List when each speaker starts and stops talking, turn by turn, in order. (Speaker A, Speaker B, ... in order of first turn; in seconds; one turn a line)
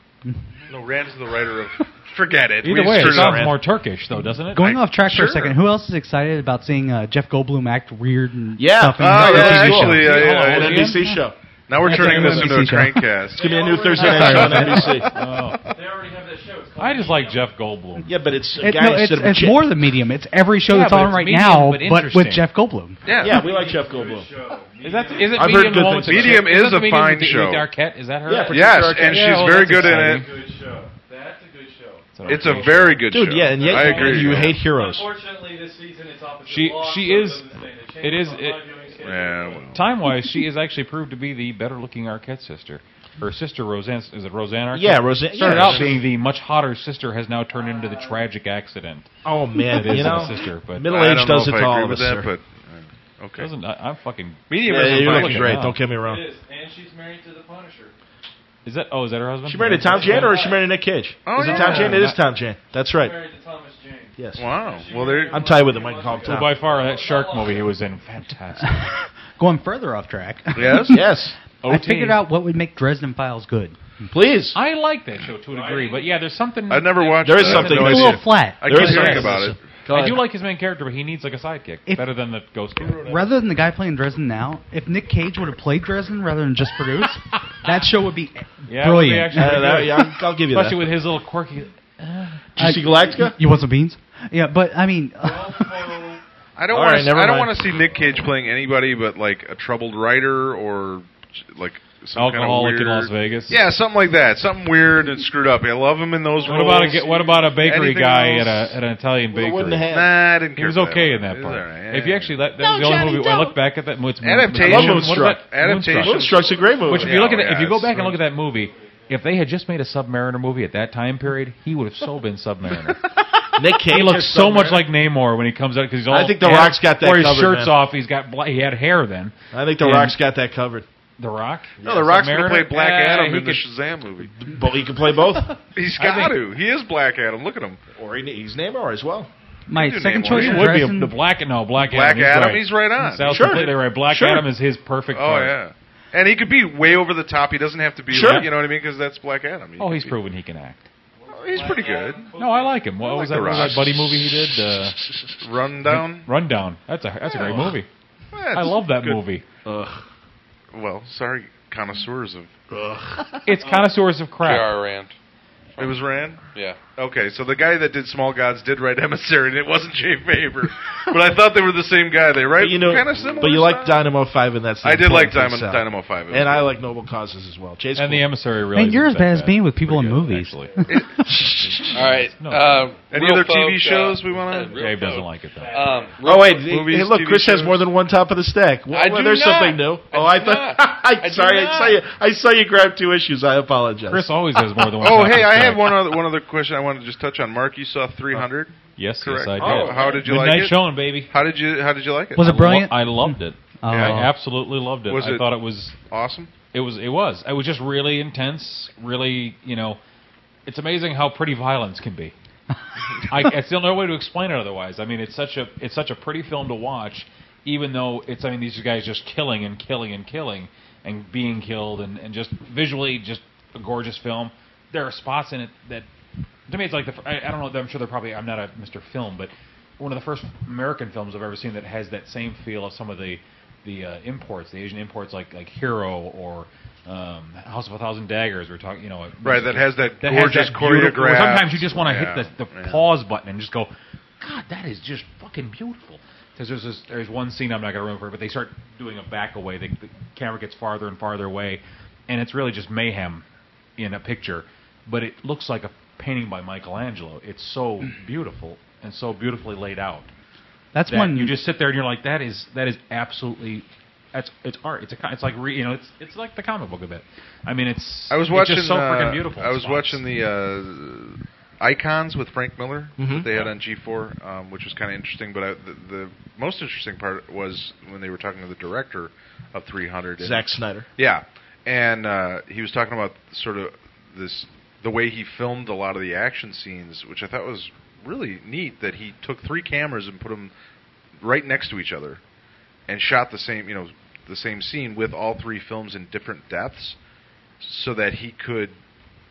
Speaker A: 0.7-3.5
Speaker B: 2.6-4.7
Speaker C: 2.6-3.6
Speaker D: 4.5-10.1
Speaker A: 4.6-5.6
Speaker C: 8.6-12.7
Speaker A: 9.0-10.9
Speaker B: 9.4-11.1
Speaker A: 11.7-15.1
Speaker D: 11.8-13.2
Speaker E: 13.3-15.0
Speaker C: 13.3-15.2
Speaker D: 14.0-14.8
Speaker B: 15.0-15.7
Speaker E: 15.7-17.6
Speaker B: 16.8-18.1
Speaker C: 18.1-19.8
Speaker D: 18.6-23.0
Speaker B: 20.7-22.5
Speaker A: 23.1-23.4
Speaker C: 23.2-24.3
Speaker E: 23.2-25.8
Speaker B: 24.8-30.3
Speaker C: 25.3-26.6
Speaker A: 25.9-27.7
Speaker C: 28.2-29.6
Speaker A: 28.5-30.3
Speaker E: 29.4-32.9
Speaker B: 32.1-33.1
Speaker A: 32.3-34.6
Speaker C: 33.1-35.1
Speaker E: 33.4-39.7
Speaker B: 36.5-38.7
Speaker A: 39.0-39.9
Speaker B: 39.7-49.1
Speaker C: 44.7-46.1
Speaker A: 45.4-46.0
Speaker E: 47.5-48.2
Speaker C: 49.2-52.3
Speaker B: 49.7-50.9
Speaker A: 50.8-53.5
Speaker B: 53.4-55.8
Speaker A: 54.5-55.5
Speaker C: 54.6-56.3
Speaker E: 56.0-57.9
Speaker B: 58.6-60.4
Speaker C: 59.5-63.2
Speaker E: 59.8-60.8
Speaker A: 61.2-62.1
Speaker E: 61.4-62.1
Speaker B: 61.5-62.1
Speaker E: 62.9-67.8
Speaker C: 64.2-64.6
Speaker A: 64.4-65.5
Speaker C: 65.3-66.6
Speaker B: 66.2-68.9
Speaker D: 68.6-74.1
Speaker A: 70.5-71.0
Speaker C: 70.9-71.4
Speaker B: 71.6-72.2
Speaker C: 74.1-74.6
Speaker B: 74.5-78.2
Speaker E: 75.5-76.1
Speaker A: 76.7-79.6
Speaker C: 77.2-80.3
Speaker D: 77.7-79.5
Speaker B: 78.8-79.2
Speaker B: 79.9-83.2
Speaker D: 83.0-90.0
Speaker B: 88.7-92.5
Speaker C: 89.3-90.8
Speaker C: 92.6-93.4
Speaker D: 92.6-96.0
Speaker E: 95.2-96.2
Speaker A: 96.6-108.8
Speaker C: 96.7-97.6
Speaker B: 102.2-103.6
Speaker B: 106.5-109.9
Speaker C: 109.3-110.1
Speaker A: 109.9-112.4
Speaker B: 110.5-116.3
Speaker C: 112.7-113.3
Speaker A: 114.2-118.1
Speaker C: 114.5-117.3
Speaker B: 116.9-123.1
Speaker E: 118.3-119.0
Speaker C: 123.6-124.9
Speaker B: 123.8-130.2
Speaker C: 126.1-127.8
Speaker C: 129.5-130.9
Speaker B: 131.2-133.6
Speaker C: 131.8-132.1
Speaker A: 131.8-134.3
Speaker C: 134.4-135.6
Speaker A: 135.8-137.8
Speaker B: 136.0-136.3
Speaker C: 138.0-139.3
Speaker D: 139.7-141.2
Speaker A: 139.7-140.8
Speaker B: 140.2-145.6
Speaker A: 141.8-143.6
Speaker C: 143.3-144.5
Speaker A: 145.1-150.2
Speaker C: 148.1-148.5
Speaker B: 148.2-148.5
Speaker B: 149.8-150.9
Speaker E: 151.2-153.5
Speaker A: 151.3-152.3
Speaker B: 152.3-155.0
Speaker A: 153.1-154.1
Speaker A: 155.4-156.3
Speaker B: 155.9-157.9
Speaker C: 157.4-157.7
Speaker A: 158.3-159.2
Speaker B: 158.5-159.4
Speaker C: 159.7-160.0
Speaker A: 160.7-162.5
Speaker C: 162.7-163.4
Speaker B: 163.4-164.7
Speaker E: 163.6-163.9
Speaker F: 164.4-165.1
Speaker A: 165.8-166.4
Speaker F: 166.5-166.8
Speaker A: 167.0-174.1
Speaker C: 172.6-178.3
Speaker A: 174.8-176.7
Speaker B: 177.9-182.9
Speaker D: 178.7-181.0
Speaker C: 181.3-181.8
Speaker F: 181.9-186.6
Speaker A: 183.1-184.8
Speaker B: 184.8-185.8
Speaker E: 185.6-186.2
Speaker C: 186.2-194.4
Speaker A: 186.3-187.9
Speaker F: 188.9-192.0
Speaker B: 194.1-196.0
Speaker A: 195.0-202.4
Speaker B: 199.0-201.3
Speaker C: 199.6-200.1
Speaker D: 202.4-204.3
Speaker B: 202.4-206.0
Speaker A: 203.9-204.2
Speaker A: 205.1-206.5
Speaker B: 206.7-210.0
Speaker B: 210.7-212.3
Speaker B: 213.3-226.1
Speaker B: 226.7-253.4
Speaker A: 239.4-243.0
Speaker B: 254.0-260.3
Speaker D: 260.9-261.6
Speaker B: 261.1-270.2
Speaker A: 268.3-280.7
Speaker C: 273.2-273.5
Speaker C: 280.4-281.1
Speaker A: 281.2-290.7
Speaker A: 291.4-292.4
Speaker A: 293.1-297.2
Speaker A: 297.8-298.9